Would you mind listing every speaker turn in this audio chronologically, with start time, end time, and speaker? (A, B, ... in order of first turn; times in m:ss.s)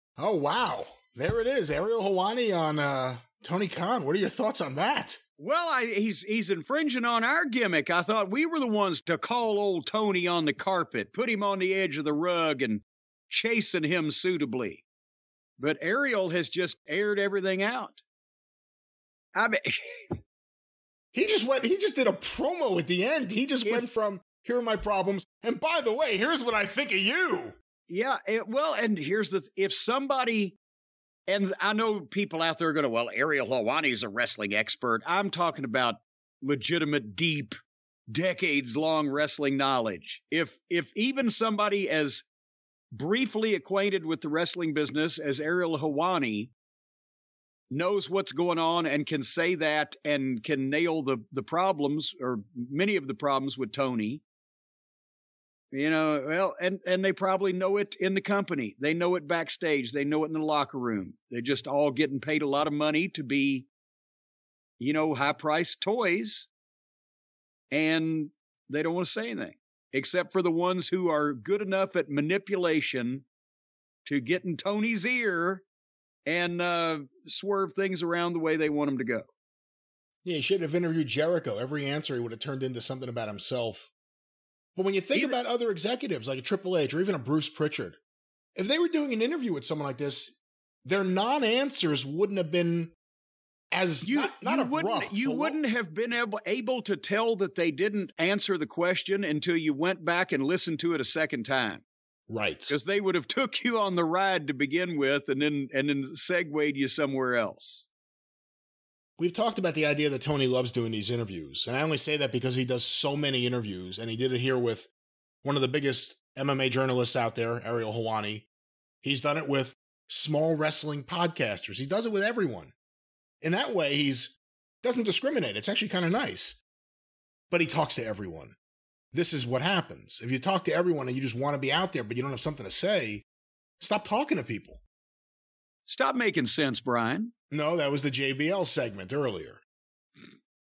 0:00.2-0:05.2 A
0:05.4-0:14.8 B
0:15.6-0:18.0 B
0:19.4-0:20.2 B
0:21.1-0:27.6 A
0:23.6-0:23.9 B
0:27.9-0:30.6 B
0:31.3-0:37.5 B
0:38.1-0:42.2 B
0:42.9-0:46.5 B
0:47.7-0:54.2 B
0:55.7-1:03.7 B
1:04.8-1:06.5 B
1:07.7-1:13.2 B
1:14.0-1:15.6 B
1:16.2-1:19.3 B
1:20.2-1:23.9 A
1:24.8-1:28.0 A
1:28.6-1:32.9 A
1:33.7-1:35.6 A
1:34.0-1:41.8 B
1:42.3-1:42.8 A
1:42.7-1:47.9 B
1:49.2-1:54.9 A
1:55.4-1:58.5 A
1:59.0-2:02.7 A
2:03.4-2:06.6 A
2:07.5-2:08.5 A
2:09.1-2:13.2 A
2:13.8-2:14.8 A
2:15.9-2:17.3 B
2:17.5-2:19.6 A